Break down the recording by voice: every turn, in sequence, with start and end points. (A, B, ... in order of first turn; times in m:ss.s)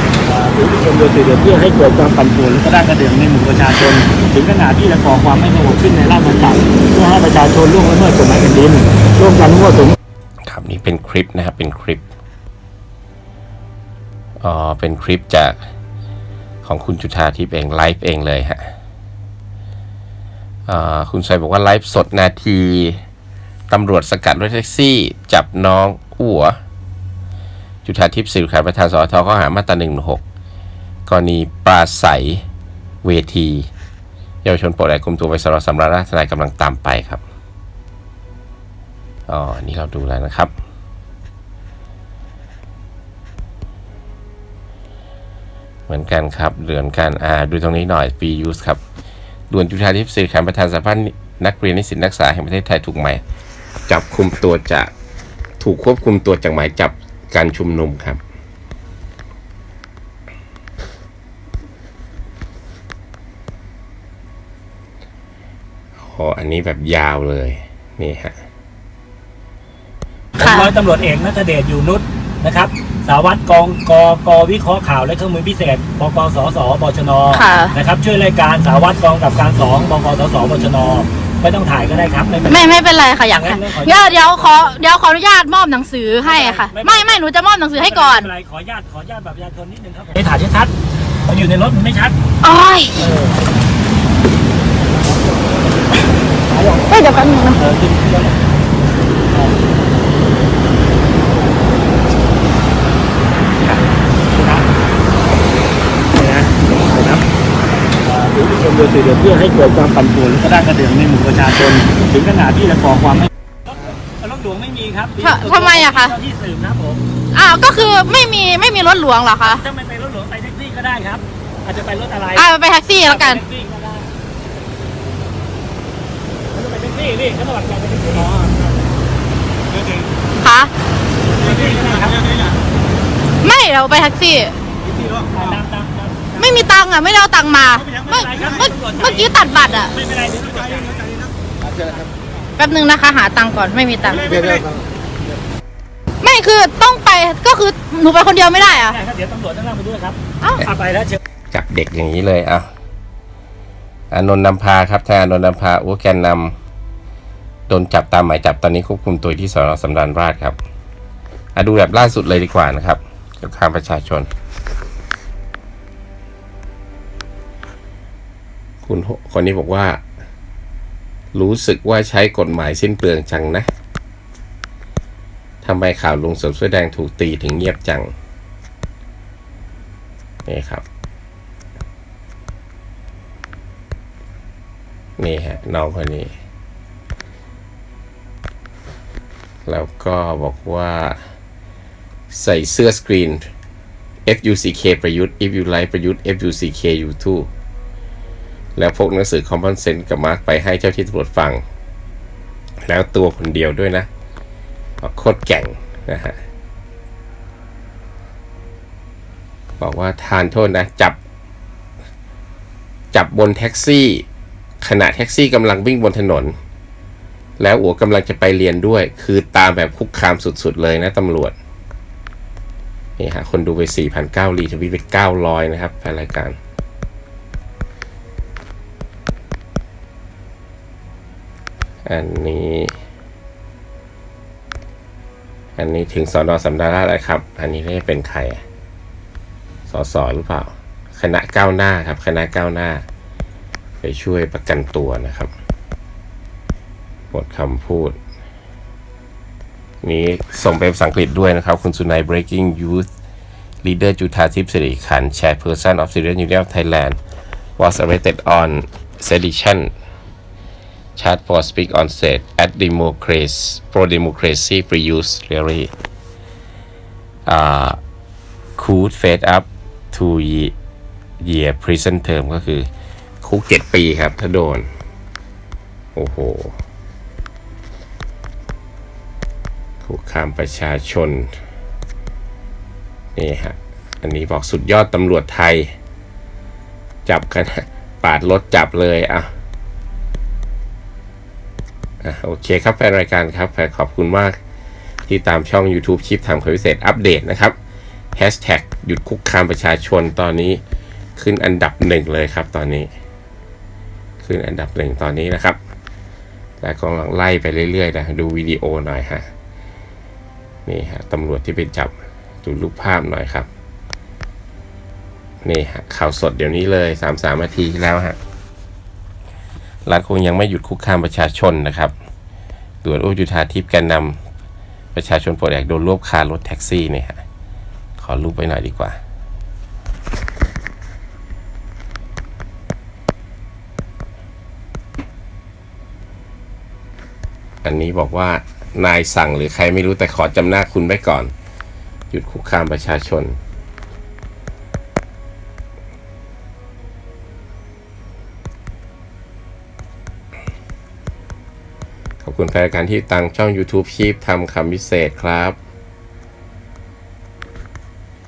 0:00.2-0:10.0 A
0:10.5-0:12.0 B
0:14.4-0:15.6 B
0:16.6-0:18.7 B
0:20.7-0:23.0 B
0:23.7-0:26.6 B
0:27.8-0:30.2 B
0:31.1-0:32.4 B
0:33.0-0:33.7 B
0:34.4-0:37.2 B
0:39.3-0:40.5 B
0:45.9-0:48.8 B
0:49.5-0:53.2 B
0:53.9-0:54.9 B
0:55.6-0:58.2 B
1:06.0-1:08.4 B
1:10.4-1:24.8 A
1:10.4-1:10.7 C
1:17.3-1:17.8 C
1:22.5-1:28.3 C
1:26.2-1:27.2 A
1:27.8-1:30.7 A
1:31.3-1:32.2 A
1:32.4-1:33.0 C
1:33.0-1:33.4 A
1:34.9-1:35.6 A
1:36.4-1:38.5 A
1:43.6-1:44.7 A
1:46.1-1:47.3 A
1:48.0-1:57.0 A
1:55.2-1:56.2 C
1:57.3-1:59.6 C
1:59.4-2:04.1 A
2:02.4-2:03.4 C
2:06.5-2:08.5 A
2:10.4-2:10.7 C
2:11.3-2:12.3 A
2:13.4-2:14.6 C
2:15.3-2:16.8 A
2:16.4-2:20.0 C
2:17.8-2:19.3 A
2:19.9-2:21.1 A
2:22.6-2:24.6 C
2:26.2-2:29.0 C
2:28.5-2:31.2 A
2:31.5-2:32.7 B
2:34.1-2:36.6 B
2:37.7-2:40.6 B
2:41.6-2:44.3 B
2:48.8-2:50.0 B
2:51.4-2:53.7 B
2:55.6-2:58.1 B
3:00.5-3:00.8 B
3:05.2-3:06.3 B
3:09.7-3:11.2 B
3:12.3-3:13.5 B
3:14.3-3:17.5 B
3:18.8-3:21.6 B
3:22.8-3:24.1 B
3:25.0-3:26.4 B
3:29.8-3:31.2 B
3:33.1-3:34.2 B
3:34.8-3:36.5 B
3:37.6-3:41.6 B
3:43.2-3:46.6 B
3:52.0-3:53.0 B
3:55.8-3:58.6 B
3:59.9-4:03.0 B
4:04.0-4:05.5 B
4:07.3-4:08.2 B
4:10.0-4:13.1 B
4:13.8-4:17.2 B
4:17.8-4:19.9 B
4:21.2-4:25.9 B
4:27.5-4:28.0 B
4:28.8-4:30.7 B
4:31.4-4:32.9 B
4:33.4-4:34.9 B
4:36.2-4:36.8 B
4:40.0-4:41.6 B
4:43.4-4:45.9 B
4:47.3-4:49.5 B
4:52.2-4:54.6 B
4:55.3-4:57.8 B
4:58.4-5:00.8 B
5:01.4-5:03.1 B
5:04.4-5:05.8 B
5:06.8-5:09.5 B
5:10.9-5:13.7 B
5:15.6-5:18.4 B
5:20.1-5:22.1 B
5:23.0-5:24.4 B
5:25.1-5:27.4 B
5:28.2-5:29.2 B
5:37.8-5:41.5 B
5:42.3-5:43.6 B
5:52.4-5:55.8 B